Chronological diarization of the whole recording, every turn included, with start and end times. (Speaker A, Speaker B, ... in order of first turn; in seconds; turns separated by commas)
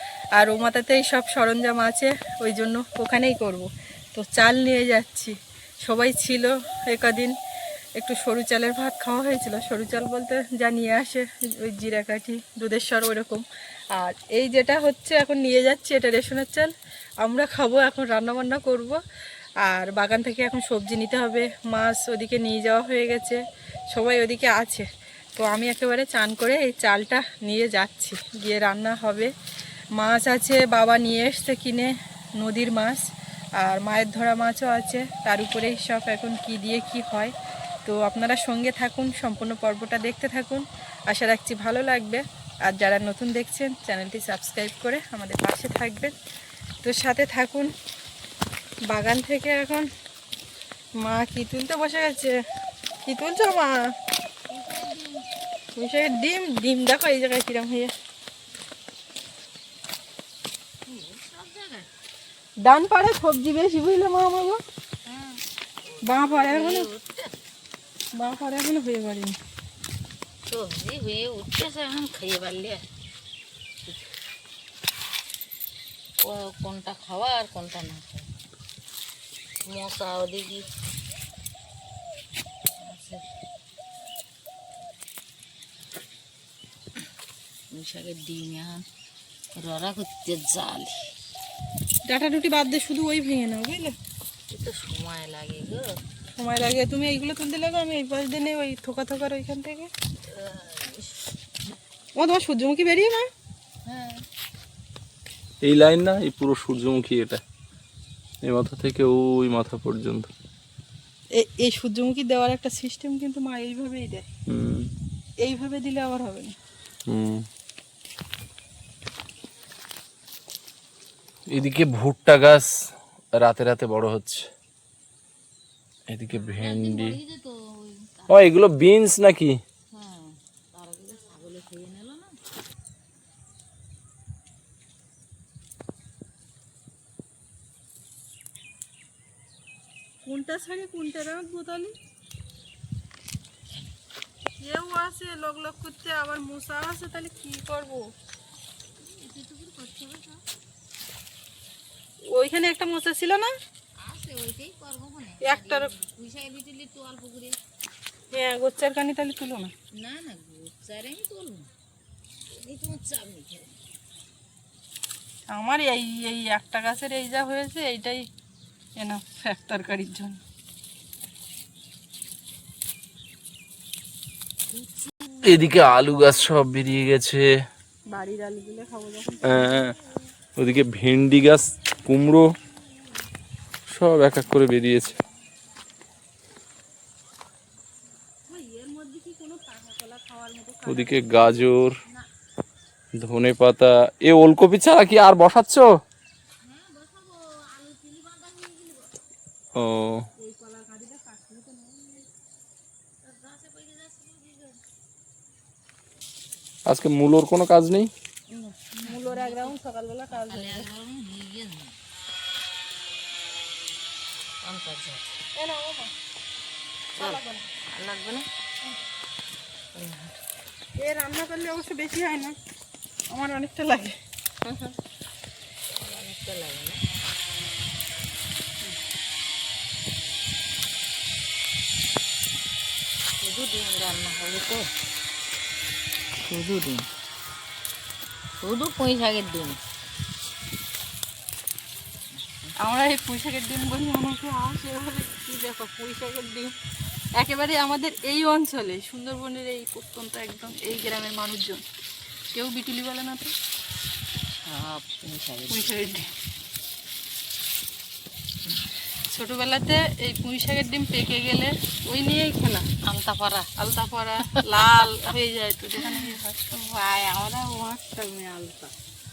Speaker A: 0.3-7.3, Speaker A: 8.0-19.0, Speaker A: 19.6-29.3, Speaker A: 29.9-33.0, Speaker A: 33.6-37.3, Speaker A: 37.8-46.1, Speaker A: 46.8-47.7, Speaker A: 48.9-49.9, Speaker A: 51.0-52.4, Speaker A: 53.0-53.8, Speaker B: 54.5-55.3, Speaker A: 55.8-57.9, Speaker B: 60.9-61.9, Speaker A: 62.6-64.6, Speaker B: 65.0-67.3, Speaker A: 66.0-66.9, Speaker A: 68.1-69.3, Speaker B: 70.5-72.8, Speaker B: 76.2-78.3, Speaker B: 79.7-80.7, Speaker B: 82.8-83.2, Speaker B: 87.7-88.8, Speaker B: 89.5-91.1, Speaker A: 92.0-94.0, Speaker B: 94.5-96.0, Speaker A: 96.4-99.9, Speaker B: 100.3-101.2, Speaker A: 102.2-103.3, Speaker B: 103.8-104.2, Speaker C: 105.6-107.4, Speaker C: 108.4-110.3, Speaker A: 111.3-114.3, Speaker C: 114.5-114.9, Speaker A: 115.4-116.5, Speaker C: 117.1-117.4, Speaker C: 121.5-122.7, Speaker C: 123.3-124.5, Speaker C: 126.1-127.2, Speaker B: 126.3-128.6, Speaker C: 128.3-129.6, Speaker B: 129.9-132.4, Speaker A: 140.2-141.9, Speaker A: 144.6-148.1, Speaker B: 149.0-150.4, Speaker A: 152.3-153.5, Speaker B: 154.0-157.6, Speaker A: 155.4-155.9, Speaker A: 158.3-159.7, Speaker B: 159.9-161.7, Speaker B: 162.5-163.8, Speaker A: 165.5-168.3, Speaker A: 169.0-170.4, Speaker B: 174.7-175.3, Speaker C: 175.4-177.5, Speaker A: 178.1-179.7, Speaker C: 179.4-179.9, Speaker C: 180.6-182.5, Speaker C: 183.9-185.2, Speaker A: 188.5-191.7, Speaker C: 190.8-192.0, Speaker C: 193.2-195.9, Speaker B: 196.6-199.1, Speaker C: 199.7-200.3, Speaker A: 200.4-202.2, Speaker B: 203.2-204.8, Speaker C: 206.8-208.1, Speaker A: 208.5-210.8, Speaker B: 209.0-209.7, Speaker B: 210.3-211.9, Speaker B: 214.6-215.3, Speaker A: 215.6-216.1, Speaker A: 217.2-217.6, Speaker B: 217.2-218.4, Speaker B: 219.9-220.3, Speaker A: 221.0-222.5, Speaker A: 223.3-224.2, Speaker B: 224.6-224.9, Speaker B: 225.9-227.0, Speaker B: 233.4-234.8, Speaker B: 236.4-237.1, Speaker B: 238.6-239.8, Speaker B: 242.4-242.7, Speaker A: 242.8-246.7, Speaker A: 247.4-251.8, Speaker A: 252.5-253.5, Speaker B: 254.7-255.8, Speaker A: 255.7-256.3, Speaker A: 259.3-262.9, Speaker B: 263.0-263.7, Speaker A: 263.8-266.7, Speaker B: 266.0-267.8, Speaker A: 267.8-268.9